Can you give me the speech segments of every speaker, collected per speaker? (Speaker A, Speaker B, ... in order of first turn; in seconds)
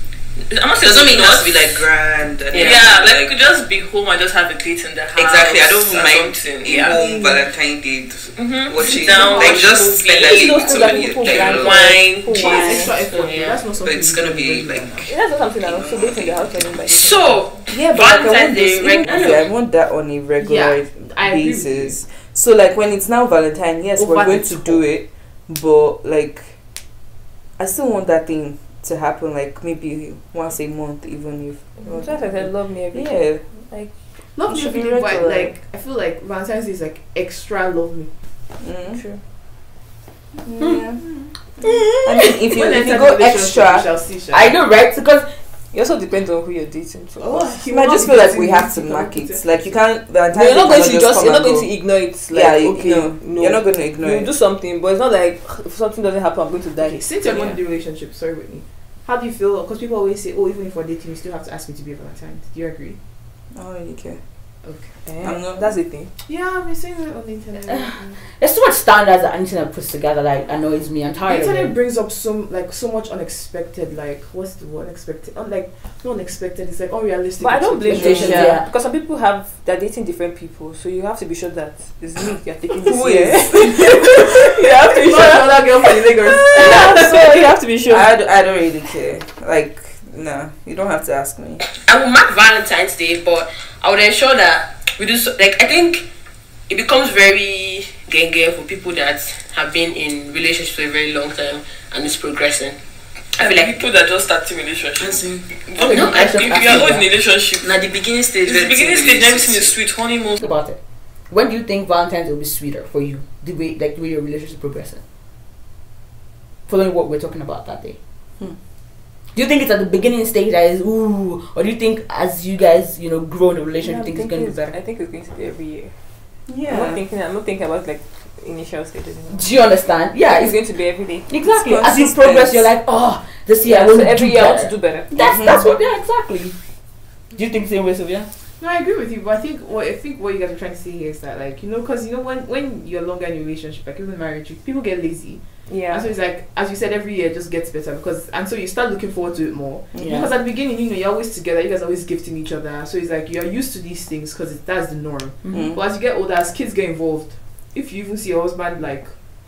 Speaker A: 0.5-1.5, 2.5-7.0, 8.4-12.4, 103.3-110.5
Speaker B: 0.8-3.3, 5.2-12.0, 13.8-15.1, 15.6-16.4, 105.0-105.5, 107.6-109.8
Speaker C: 2.5-2.9, 9.4-9.9, 11.3-13.6, 16.9-19.5, 91.8-96.0, 96.7-102.8, 103.4-103.7, 105.8-106.5
Speaker D: 7.1-7.4, 17.7-26.6, 27.6-33.4, 34.5-35.5, 38.6-39.0, 40.4-41.0, 41.6-43.9, 47.6-51.7, 52.3-54.3, 63.5-64.2, 65.2-65.8, 77.9-78.5, 82.8-84.0, 86.7-87.3, 87.8-91.6, 126.5-127.0, 131.4-132.7, 135.2-135.6, 155.5-155.8
Speaker E: 9.1-9.6, 10.2-13.0, 15.0-17.5, 31.8-33.9, 38.9-39.2, 45.7-47.6, 50.3-57.5, 65.0-66.1, 77.4-88.1, 123.8-125.9, 126.6-129.5, 130.2-131.3, 133.6-135.2, 145.7-146.1
Speaker F: 12.3-15.1, 20.4-22.0, 24.0-24.8, 34.4-38.1, 42.4-44.5, 47.2-49.4, 56.8-63.0, 64.6-65.0, 66.2-68.2, 71.3-78.6, 83.6-87.5, 138.6-159.1
Speaker G: 44.3-45.3, 67.7-71.8, 77.9-78.7, 105.8-107.1, 110.4-110.8, 111.3-115.0, 116.7-118.0, 119.3-124.8, 129.3-130.6, 131.2-136.5, 137.3-138.3, 150.0-150.3, 155.4-155.7